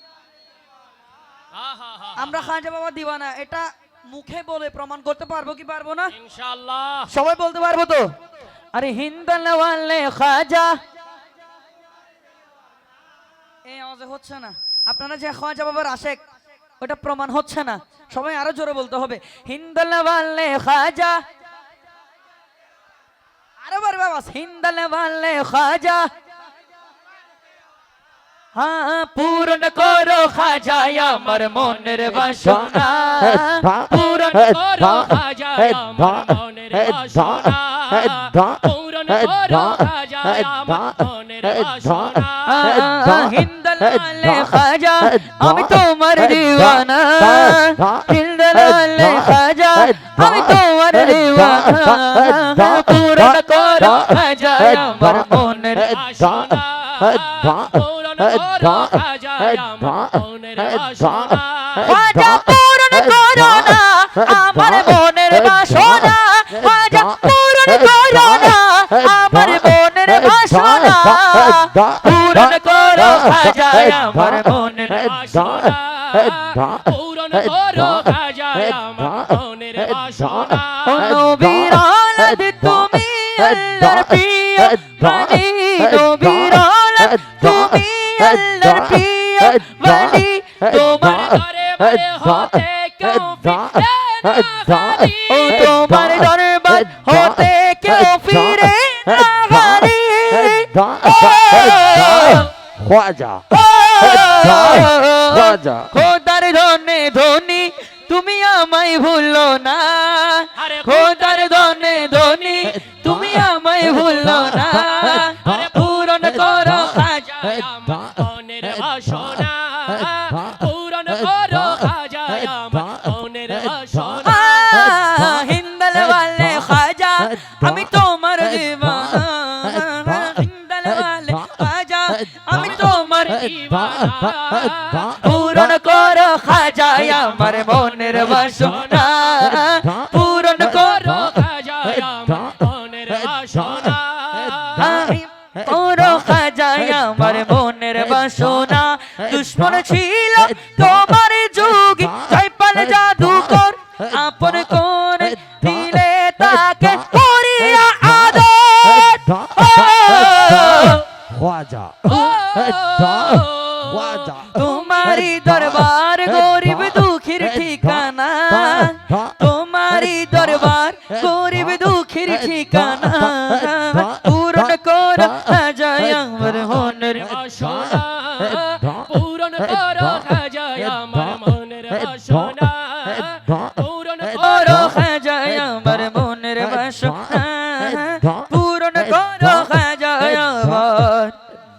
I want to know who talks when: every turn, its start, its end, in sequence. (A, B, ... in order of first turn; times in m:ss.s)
0:01.5-0:02.3 A
0:02.2-0:06.1 B
0:06.2-0:07.1 A
0:07.1-0:08.1 B
0:08.7-0:10.8 B
0:13.7-0:16.2 B
0:16.8-0:21.2 B
0:23.6-0:26.1 B
0:28.5-0:34.5 B
0:31.4-0:32.4 A
0:33.9-0:42.7 A
0:42.4-0:56.0 B
0:55.8-1:01.9 A
1:01.8-1:15.3 B
1:14.9-1:21.0 A
1:20.8-1:31.4 B
1:30.7-1:35.7 A
1:35.2-1:42.5 B
1:41.0-1:43.5 C
1:43.5-1:57.5 B
1:45.5-1:45.9 C
1:50.6-1:51.5 A
1:54.7-2:04.8 A
2:04.2-2:13.7 B
2:13.2-2:15.5 A
2:15.0-2:21.4 B
2:20.2-2:25.0 A
2:24.7-2:41.1 B
2:41.3-2:42.1 C
2:42.0-2:44.5 A
2:44.4-2:57.4 B
2:57.0-3:05.0 A
3:04.3-3:11.4 B